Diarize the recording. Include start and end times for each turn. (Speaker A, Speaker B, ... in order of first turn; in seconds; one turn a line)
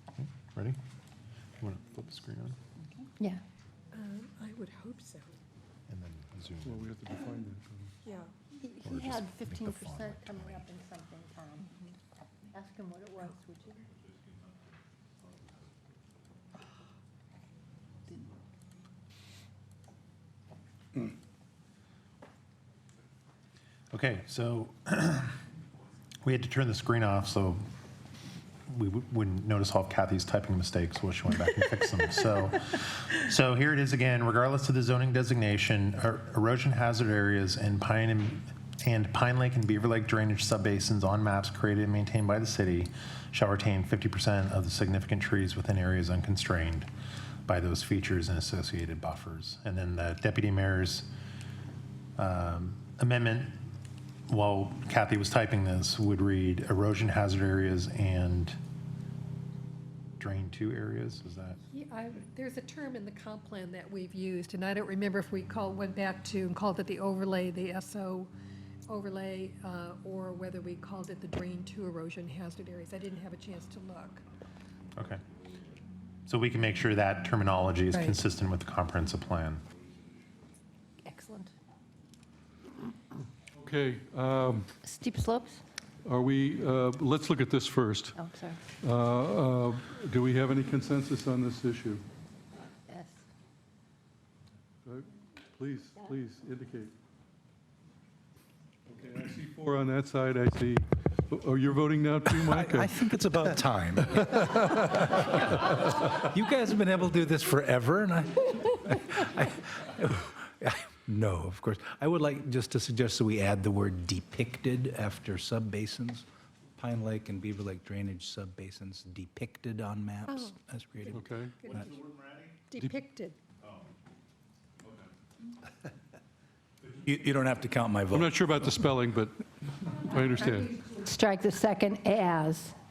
Speaker A: 0.2-0.8
Speaker A: 1.6-2.6
Speaker B: 3.9-5.3
Speaker A: 5.9-6.9
Speaker C: 6.6-7.9
Speaker B: 8.0-8.3
Speaker D: 8.6-11.8
Speaker A: 8.8-10.7
Speaker D: 12.5-13.8
Speaker A: 23.9-25.4
Speaker A: 26.2-27.6
Speaker A: 28.7-46.9
Speaker A: 47.5-51.1
Speaker A: 52.2-53.5
Speaker A: 54.3-58.5
Speaker A: 60.2-61.6
Speaker B: 61.7-68.3
Speaker B: 68.9-74.2
Speaker A: 76.3-79.6
Speaker D: 81.0-81.5
Speaker C: 83.5-84.7
Speaker D: 84.8-85.6
Speaker C: 86.0-88.2
Speaker D: 88.1-88.6
Speaker C: 88.8-92.0
Speaker D: 92.9-93.2
Speaker C: 94.8-96.9
Speaker C: 98.9-103.0
Speaker E: 102.3-116.2
Speaker E: 116.8-122.0
Speaker B: 120.3-120.5
Speaker C: 121.1-121.5
Speaker B: 122.7-123.4
Speaker E: 127.0-128.5
Speaker C: 128.1-130.7
Speaker D: 130.4-132.7